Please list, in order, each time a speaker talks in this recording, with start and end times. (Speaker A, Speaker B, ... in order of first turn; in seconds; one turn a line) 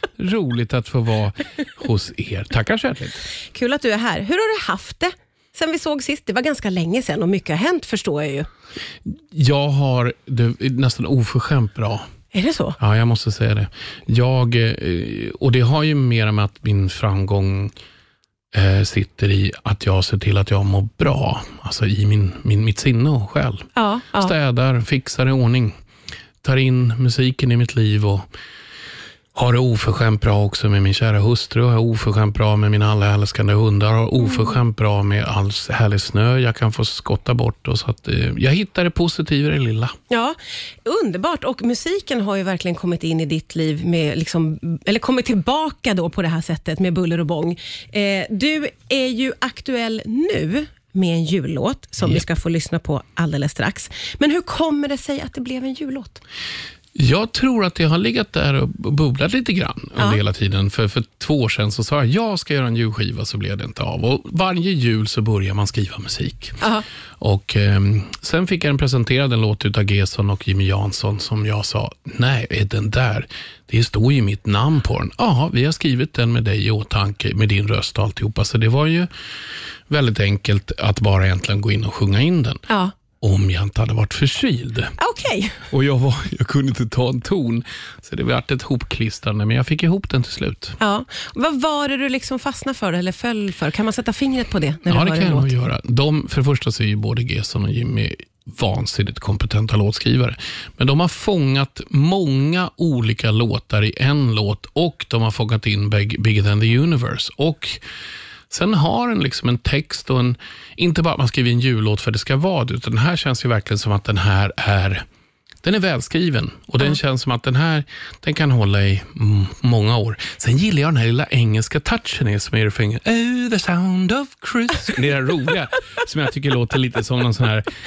Speaker A: 0.2-3.2
Speaker B: 3.5-8.5
Speaker A: 9.3-12.1
Speaker B: 12.3-12.8
Speaker A: 12.8-17.7
Speaker A: 18.5-25.7
Speaker B: 23.8-24.3
Speaker A: 26.4-28.3
Speaker A: 29.4-39.9
Speaker B: 40.1-56.2
Speaker A: 57.0-66.6
Speaker A: 67.2-79.1
Speaker A: 79.9-82.6
Speaker B: 82.7-82.9
Speaker A: 83.2-85.0
Speaker B: 85.0-85.6
Speaker A: 85.7-90.8
Speaker B: 90.8-95.5
Speaker A: 94.9-107.8
Speaker A: 108.5-115.0
Speaker A: 115.6-127.7